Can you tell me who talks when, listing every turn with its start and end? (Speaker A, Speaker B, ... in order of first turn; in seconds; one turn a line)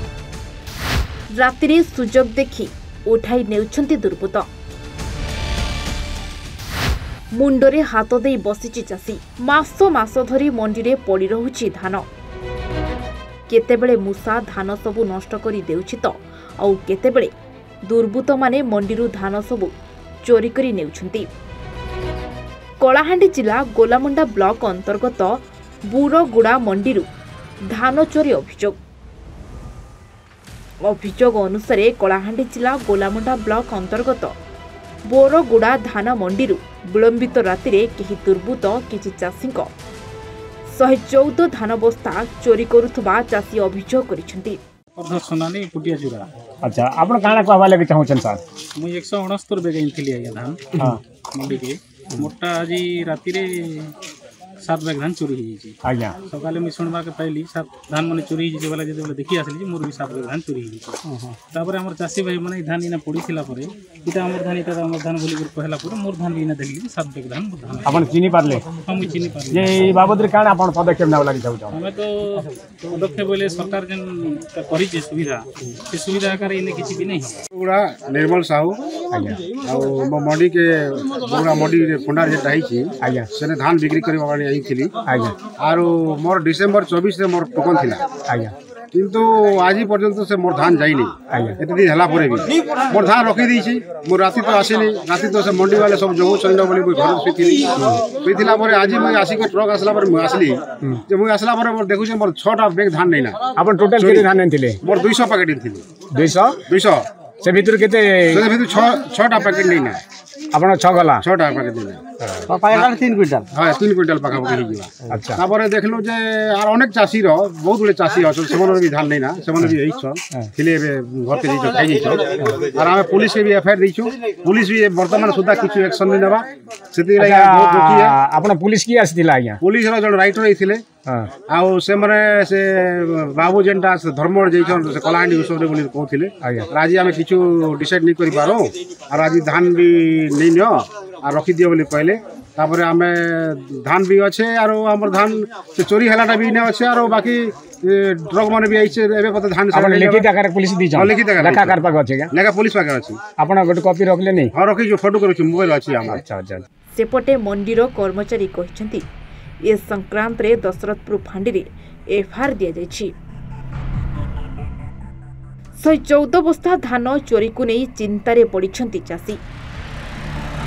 Speaker A: 1.3-4.5
Speaker A: 7.3-12.1
Speaker A: 13.5-17.3
Speaker A: 17.9-19.7
Speaker A: 20.2-21.3
Speaker A: 22.8-25.4
Speaker A: 25.9-27.1
Speaker A: 27.7-28.8
Speaker A: 30.8-34.3
Speaker A: 35.1-39.7
Speaker A: 40.7-44.6
Speaker B: 45.0-46.3
Speaker C: 46.6-48.4
Speaker B: 48.8-50.8
Speaker B: 51.3-54.0
Speaker B: 54.6-68.0
Speaker C: 55.8-56.2
Speaker C: 67.9-68.6
Speaker B: 68.8-69.8
Speaker C: 69.5-71.8
Speaker B: 71.7-77.5
Speaker D: 77.5-78.8
Speaker C: 79.1-79.4
Speaker D: 79.6-84.9
Speaker C: 83.0-83.3
Speaker C: 85.1-85.3
Speaker D: 85.6-88.0
Speaker C: 88.3-88.5
Speaker D: 88.9-103.4
Speaker C: 91.3-91.6
Speaker C: 103.6-104.8
Speaker D: 104.0-104.3
Speaker D: 104.8-105.8
Speaker C: 106.1-106.6
Speaker D: 106.7-107.1
Speaker C: 107.4-108.5
Speaker D: 108.3-110.0
Speaker C: 110.5-111.2
Speaker D: 111.2-128.2
Speaker C: 115.1-115.4
Speaker C: 127.2-129.6
Speaker D: 129.6-130.8
Speaker D: 131.5-150.3
Speaker C: 136.4-136.7
Speaker C: 149.7-152.3
Speaker D: 151.0-151.8
Speaker D: 152.3-153.2
Speaker C: 153.4-154.5
Speaker D: 154.5-156.2
Speaker C: 156.1-156.7
Speaker A: 156.9-159.0
Speaker A: 159.7-163.1
Speaker A: 165.8-169.4